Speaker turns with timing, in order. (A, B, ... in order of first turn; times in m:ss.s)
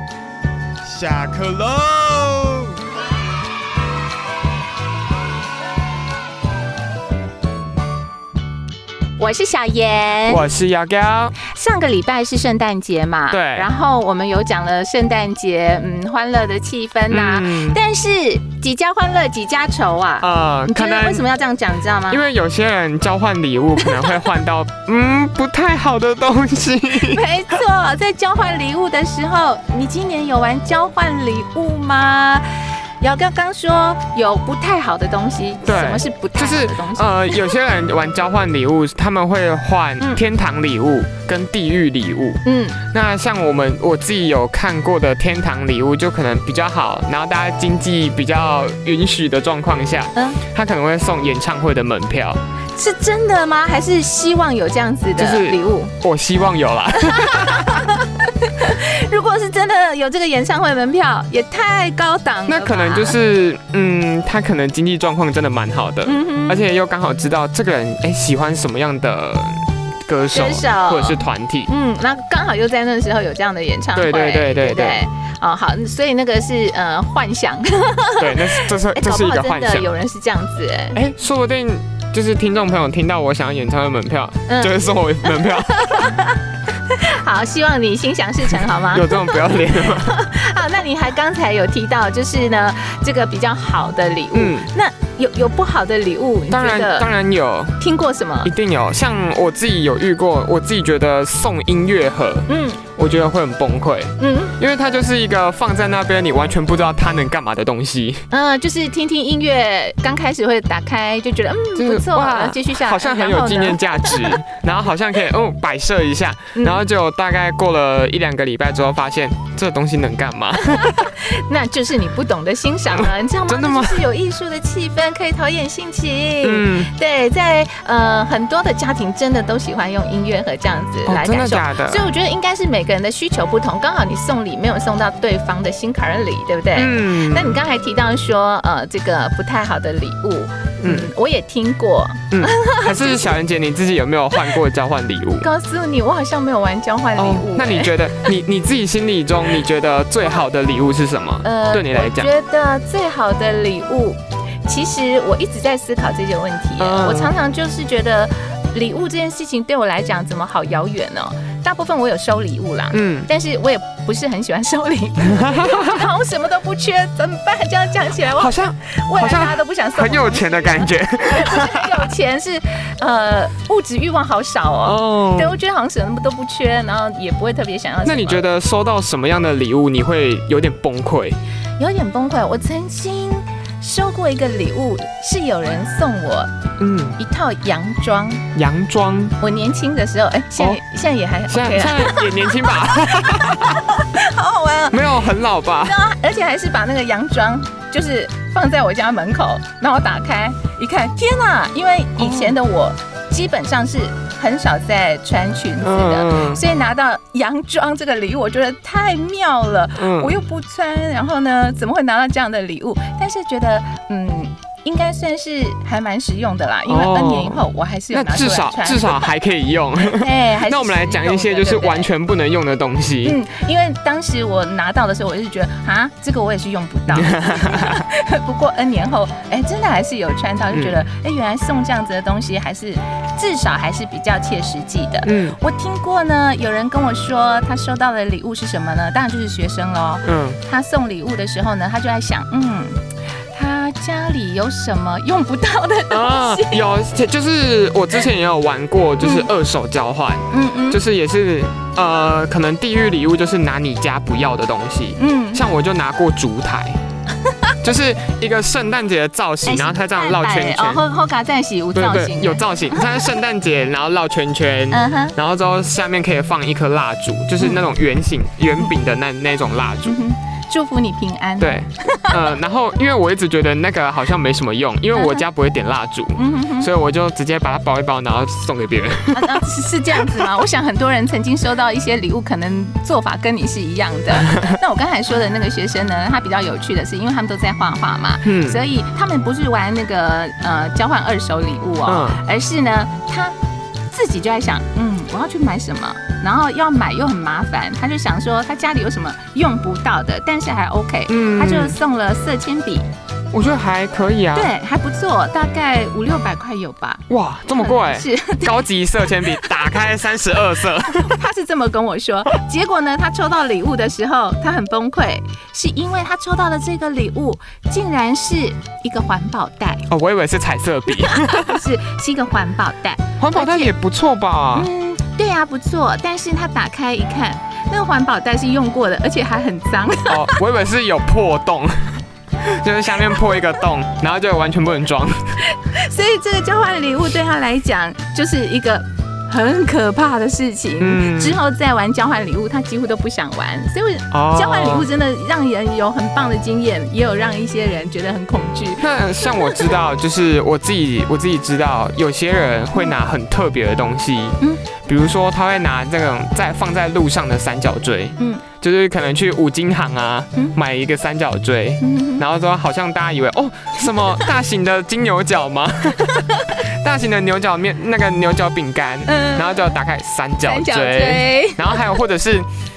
0:00.9-0:02.6 A
0:09.2-0:10.5 B
0:10.3-0:11.4 A
0:11.4-0:22.2 B
0:13.3-0:13.7 A
0:17.1-0:17.8 A
0:20.2-0:21.2 A
0:22.1-0:27.2 A
0:23.8-0:24.1 B
0:27.0-0:32.4 B
0:33.0-0:37.4 B
0:35.6-0:52.4 A
0:42.4-0:42.8 B
0:50.1-0:50.4 B
0:52.7-0:55.9 B
0:55.2-0:58.0 A
0:56.9-1:03.2 B
1:02.5-1:11.7 A
1:06.0-1:06.7 B
1:10.3-1:21.0 B
1:13.9-1:15.0 A
1:18.2-1:19.9 A
1:20.9-1:26.0 A
1:24.5-1:37.1 B
1:28.9-1:30.2 A
1:34.3-1:34.7 A
1:36.5-1:37.8 A
1:37.8-1:38.5 B
1:38.4-1:48.2 A
1:42.5-1:42.8 B
1:44.2-1:44.5 B
1:48.3-1:54.4 B
1:51.8-2:01.1 A
1:56.5-1:56.8 B
2:00.5-2:23.3 B
2:02.9-2:04.0 A
2:06.4-2:06.9 A
2:11.0-2:12.1 A
2:16.7-2:17.6 A
2:20.8-2:21.1 A
2:22.3-2:25.5 A
2:25.4-2:27.9 B
2:27.2-2:32.3 A
2:31.4-2:58.4 B
2:36.8-2:37.3 A
2:42.9-2:43.3 A
2:45.3-2:46.0 A
2:48.3-2:52.1 A
2:54.8-2:55.6 A
2:58.0-3:01.4 A
3:01.8-3:06.5 B
3:06.8-3:07.2 A
3:07.2-3:08.4 B
3:08.5-3:09.4 A
3:09.4-3:15.3 B
3:11.5-3:13.8 A
3:14.9-3:16.0 A
3:15.8-3:39.2 B
3:22.2-3:22.6 A
3:25.8-3:26.6 A
3:30.0-3:30.4 A
3:36.8-3:43.4 A
3:40.0-3:42.1 B
3:43.2-4:03.0 B
3:47.1-3:48.0 A
3:50.7-3:51.0 A
3:55.2-3:55.6 A
4:00.2-4:00.6 A
4:03.5-4:06.8 B
4:06.1-4:17.0 A
4:09.2-4:09.5 B
4:10.5-4:11.0 B
4:15.2-4:15.6 B
4:17.8-4:21.0 A
4:19.6-4:23.2 B
4:21.9-4:30.2 A
4:24.9-4:25.4 B
4:30.1-4:32.4 B
4:31.6-4:40.3 A
4:35.1-4:35.4 B
4:36.4-4:36.9 B
4:39.3-4:53.6 B
4:44.5-4:44.8 A
4:48.4-4:48.8 A
4:52.0-4:52.4 A
4:54.1-5:03.1 B
5:01.3-5:02.0 A
5:03.5-5:04.7 A
5:04.5-5:10.1 B
5:07.3-5:11.3 A
5:11.0-5:20.0 B
5:20.1-5:21.8 A
5:21.2-5:23.9 B
5:23.4-5:24.9 A
5:24.7-5:30.6 B
5:30.3-5:35.4 A
5:35.6-5:49.9 B
5:41.0-5:41.6 A
5:44.3-5:45.1 A
5:49.0-6:12.7 A
5:58.4-5:58.6 B
6:02.0-6:02.4 B
6:04.1-6:04.4 B
6:09.2-6:09.8 B
6:10.6-6:12.0 B